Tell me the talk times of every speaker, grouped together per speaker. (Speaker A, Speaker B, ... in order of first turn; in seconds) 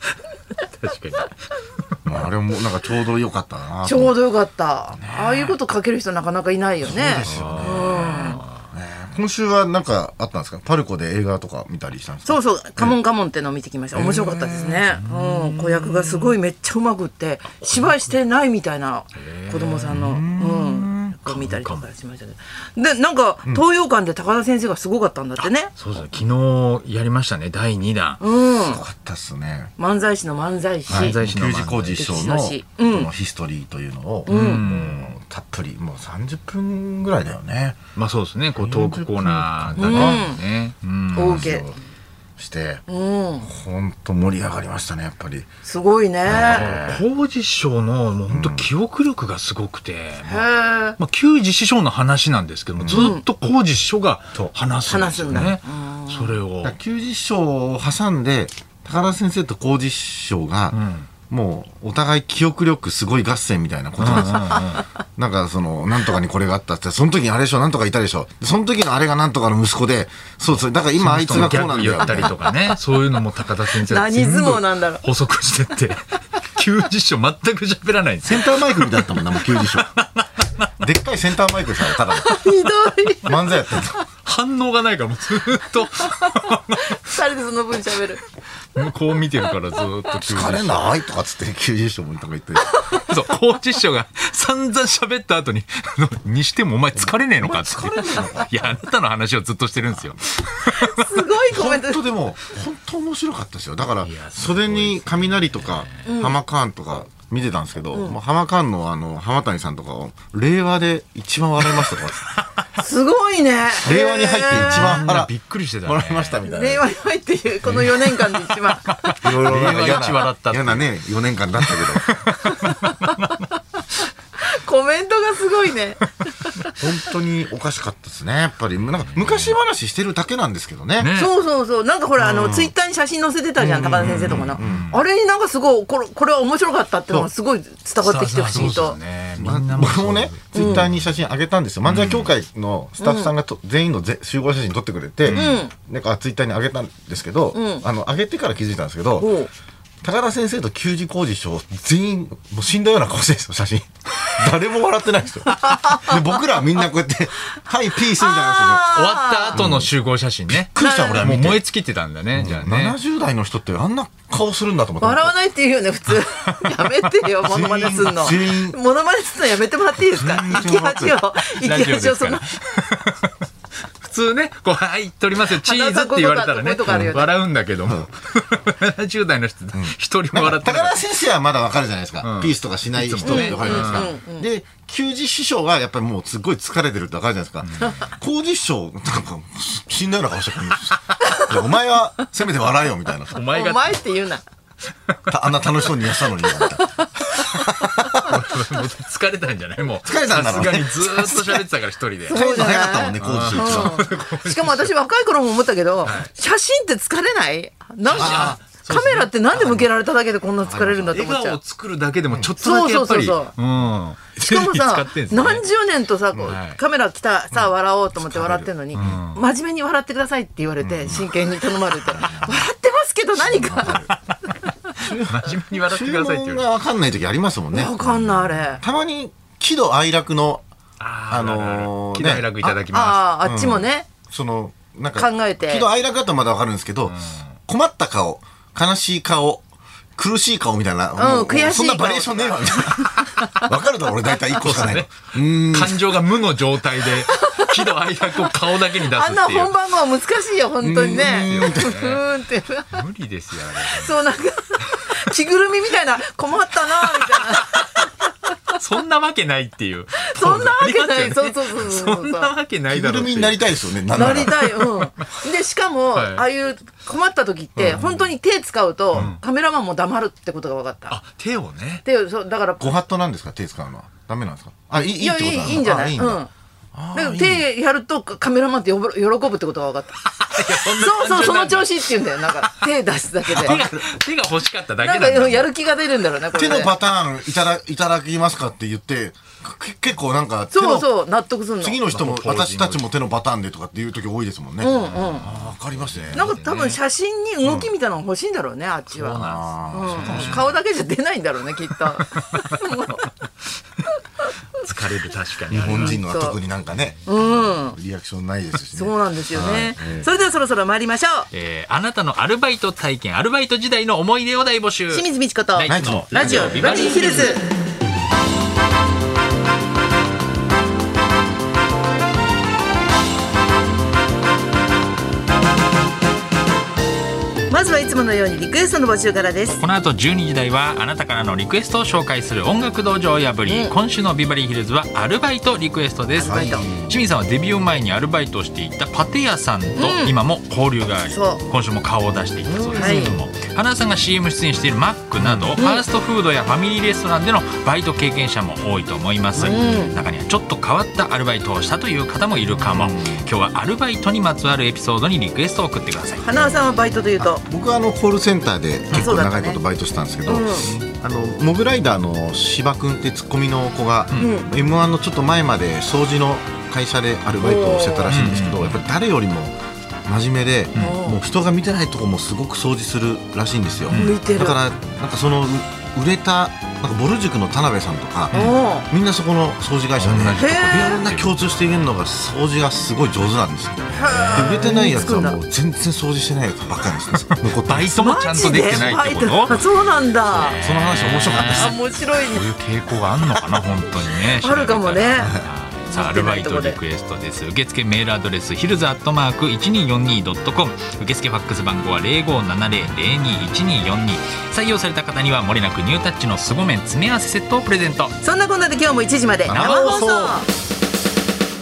Speaker A: 0.6-2.2, 7.2-8.7, 14.9-16.0, 17.6-18.1, 19.1-20.2, 21.2-21.9, 25.4-28.2, 30.9-32.2, 34.2-35.1, 37.9-41.5, 46.3-50.4, 51.0-56.8, 60.7-61.1, 64.0-64.9, 70.9-80.5, 84.2-87.2, 88.8-90.9, 92.9-101.3, 104.0-106.1, 114.5-116.4, 117.6-120.9, 121.6-123.5, 128.7-129.6, 131.0-131.3, 133.7-135.0, 138.0-141.1, 141.8-142.3, 145.2-145.6, 158.9-163.0, 166.5-166.9, 171.4-173.4, 174.0-181.1, 182.2-184.1, 187.7-188.1, 193.3-194.0, 198.1-204.9, 206.0-206.3, 208.1-209.8, 211.1-215.7, 216.4-216.8, 218.9-219.4, 224.1-226.7, 231.0-233.3, 237.1-237.5, 244.5-249.7, 251.2-252.2, 252.9-254.2, 257.2-257.8, 258.7-265.3, 266.1-266.4, 269.1-269.4, 271.1-272.0, 280.3-282.9, 283.5-285.7, 292.1-293.1, 294.8-297.0, 299.1-300.7, 302.2-302.7, 304.8-306.2, 306.9-307.2, 311.5-317.6, 329.8-356.5, 368.3-369.0, 374.1-374.4, 378.5-378.8, 380.2-382.2, 384.3-385.3, 387.3-408.3, 409.7-410.3
Speaker B: 2.0-4.2, 4.9-5.6, 6.8-13.0, 13.9-14.9, 19.9-21.2, 28.6-29.7, 30.9-37.9, 38.6-40.3, 41.1-41.8, 42.4-42.8, 43.4-45.5, 46.2-47.0, 48.3-48.7, 52.8-53.1, 55.3-55.6, 56.6-72.3, 78.2-79.9, 80.8-82.4, 83.2-84.0, 90.2-92.7, 97.0-98.8, 101.5-112.3, 113.8-115.3, 115.8-116.8, 119.2-122.1, 126.7-131.1, 132.2-132.7, 133.6-134.9, 139.4-149.3, 150.0-158.9, 159.5-159.9, 160.5-161.6, 162.3-165.3, 167.4-168.8, 170.1-171.2, 179.7-193.4, 195.3-198.4, 200.0-201.7, 202.3-204.1, 208.2-208.6, 210.6-211.2, 212.3-212.6, 217.5-219.2, 222.0-222.6, 223.3-224.1, 224.9-230.6, 231.3-232.6, 233.4-239.6, 240.2-246.2, 250.8-251.9, 262.9-264.6, 267.7-268.2, 272.8-277.7, 283.6-284.1, 286.6-291.1, 291.8-296.5, 299.4-300.7, 305.7-310.3, 315.9-316.8, 336.4-337.2, 342.7-343.5, 345.4-345.8, 349.6-350.2, 352.7-353.5, 356.5-356.8, 357.4-389.2, 390.8-391.9, 395.4-395.7, 409.7-410.6
Speaker C: 3.8-8.4, 12.2-25.7, 28.2-28.8, 29.8-31.2, 32.0-33.1, 34.3-34.6, 39.8-40.4, 41.1-41.7, 42.9-43.5, 45.6-46.7, 50.2-51.0, 52.9-53.2, 54.9-56.4, 72.0-72.8, 73.8-75.0, 82.2-84.0, 86.8-88.2, 100.6-102.0, 106.0-106.4, 112.8-115.0, 116.4-120.0, 122.5-123.3, 124.4-126.6, 131.1-139.0, 140.5-140.9, 143.0-143.3, 145.3-145.7, 147.5-147.8, 149.2-149.5, 155.6-156.2, 158.2-159.6, 160.8-161.3, 165.0-172.5, 175.5-177.4, 183.2-184.5, 191.2-191.5, 193.4-194.4, 196.4-198.1, 202.2-211.6, 212.6-213.5, 214.4-224.1, 227.7-228.8, 232.6-234.1, 235.2-235.9, 241.2-243.7, 247.2-253.0, 253.8-258.7, 260.2-262.5, 264.1-271.2, 272.0-273.0, 275.1-276.5, 277.1-283.8, 285.0-286.9, 290.7-292.0, 294.8-295.5, 296.3-303.3, 304.4-304.9, 305.9-306.6, 307.2-308.0, 308.9-311.5, 315.1-317.7, 327.7-329.8, 333.7-333.9, 336.3-336.9, 339.9-340.4, 341.2-341.6, 342.9-343.4, 345.8-346.0, 349.6-350.1, 356.4-357.6, 359.1-359.8, 360.4-360.9, 364.4-364.7, 367.6-368.3, 370.9-371.4, 374.1-374.8, 378.5-379.1, 380.6-381.2, 384.1-385.6, 388.1-390.8, 391.7-392.7, 393.5-395.5, 396.1-397.0, 408.4-410.7